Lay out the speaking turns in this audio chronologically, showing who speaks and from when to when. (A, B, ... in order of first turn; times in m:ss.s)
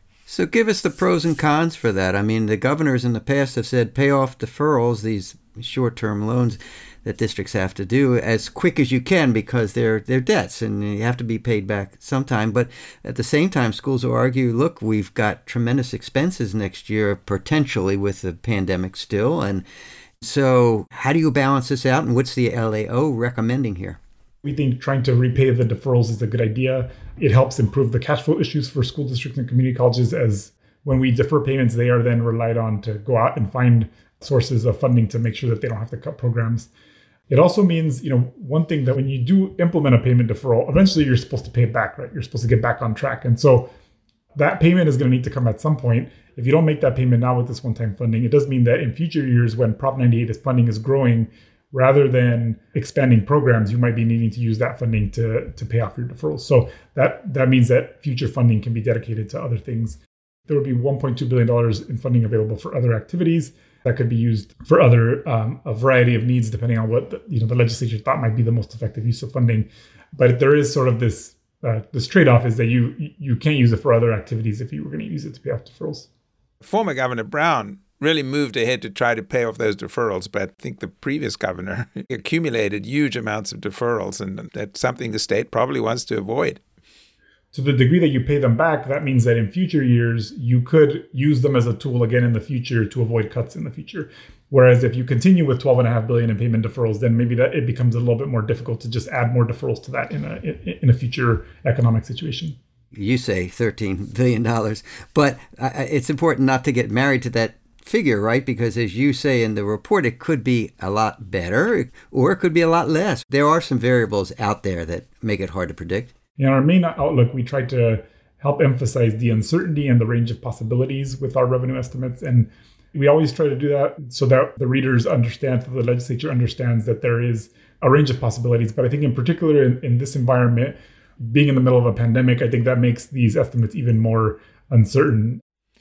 0:00.3-0:19.6 A
0:20.2-0:24.0 A
0:24.4-0:36.7 B
0:37.3-0:43.7 B
0:44.4-1:16.1 B
1:16.6-1:26.6 C
1:27.5-1:42.6 B
1:42.9-1:56.1 A
1:56.4-2:15.4 B